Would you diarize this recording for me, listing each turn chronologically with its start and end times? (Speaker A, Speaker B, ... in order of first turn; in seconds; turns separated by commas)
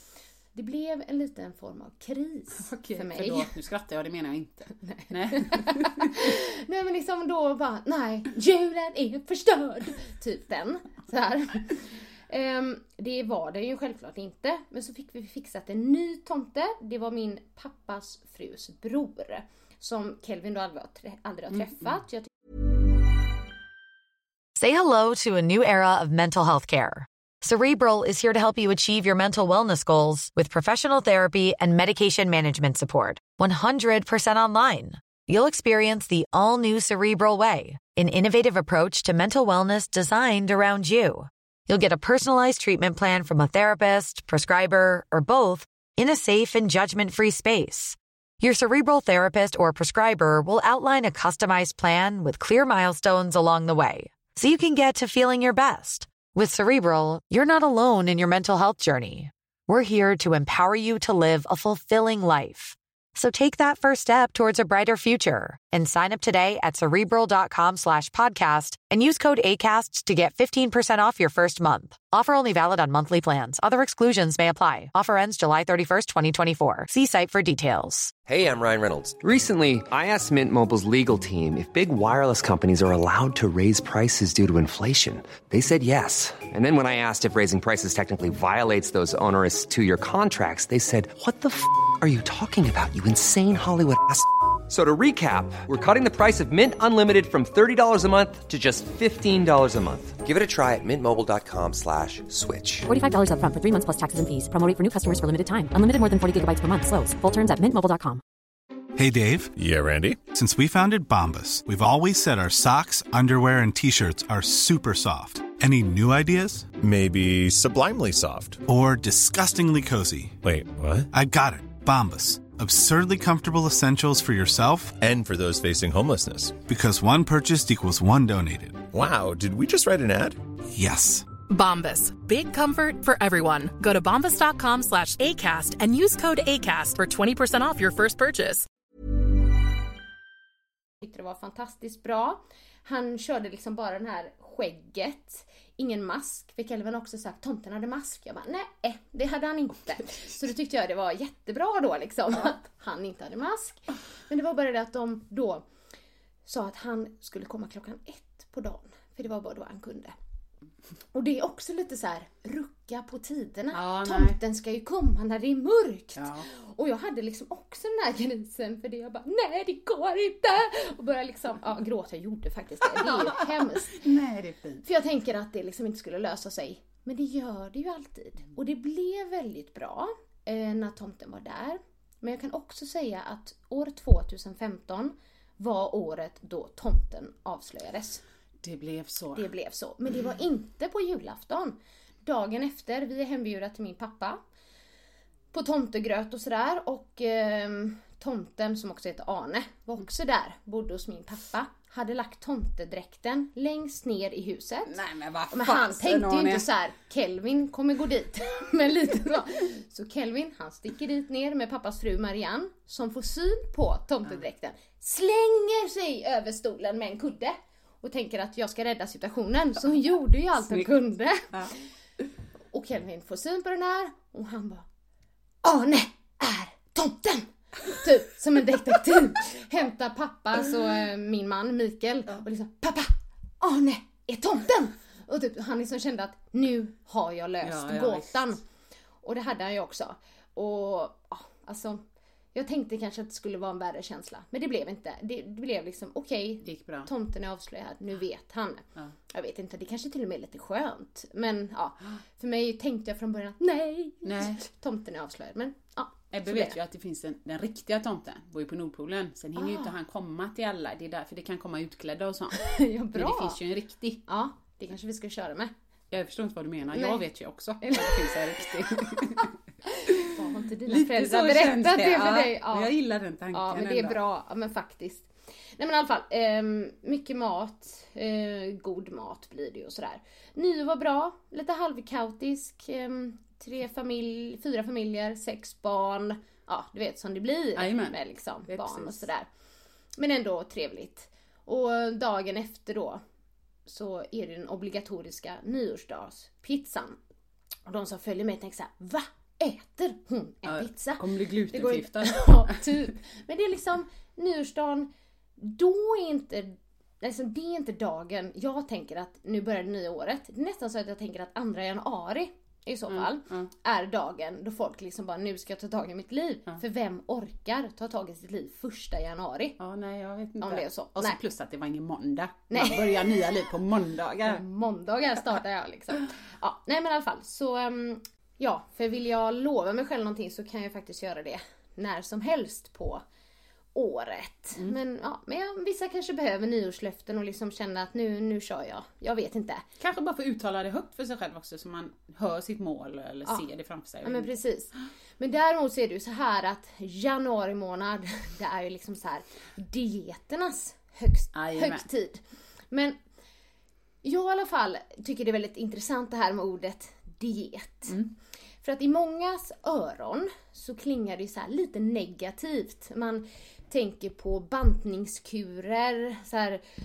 Speaker A: 0.5-3.5, Speaker B: 2.6-6.1, Speaker A: 4.8-22.3, Speaker B: 21.5-21.9, Speaker C: 24.5-78.1, Speaker D: 78.2-102.9, Speaker E: 102.9-108.2, Speaker F: 109.0-109.5, Speaker G: 109.5-110.2, Speaker F: 110.3-116.7, Speaker G: 116.8-118.6, Speaker F: 118.7-120.4, Speaker G: 120.4-121.1, Speaker F: 121.1-125.0, Speaker G: 125.0-126.6, Speaker F: 126.7-128.9, Speaker G: 128.9-130.4, Speaker F: 130.7-131.3, Speaker H: 131.5-138.6, Speaker A: 141.0-155.6, Speaker A: 156.4-160.1, Speaker A: 161.1-174.0, Speaker B: 163.7-164.4, Speaker B: 166.2-166.4, Speaker B: 172.9-174.8, Speaker A: 174.8-188.2, Speaker B: 188.6-189.5, Speaker A: 189.3-194.4, Speaker A: 195.5-205.0, Speaker B: 204.8-206.7, Speaker A: 205.5-221.9, Speaker A: 222.7-224.8, Speaker A: 225.6-238.6, Speaker B: 237.6-238.6, Speaker A: 239.2-242.0, Speaker A: 242.5-256.8, Speaker B: 246.6-247.1, Speaker B: 254.2-254.7, Speaker B: 256.3-264.2, Speaker A: 259.6-259.9, Speaker A: 262.5-263.6, Speaker A: 264.2-265.7, Speaker B: 266.1-269.5, Speaker A: 266.9-267.2, Speaker A: 267.8-268.6, Speaker A: 269.9-272.9, Speaker B: 270.1-274.2, Speaker A: 273.5-289.5, Speaker B: 287.8-289.2, Speaker A: 290.2-293.2, Speaker A: 293.9-297.2, Speaker A: 297.9-319.8, Speaker B: 300.6-302.9, Speaker B: 313.1-313.7, Speaker B: 319.8-324.6, Speaker A: 320.6-321.4, Speaker A: 322.7-323.4, Speaker A: 324.4-333.2, Speaker A: 333.9-339.8, Speaker B: 340.0-344.5, Speaker A: 344.2-353.1, Speaker B: 351.5-352.1, Speaker A: 354.2-358.2, Speaker B: 358.1-358.3, Speaker A: 358.8-366.8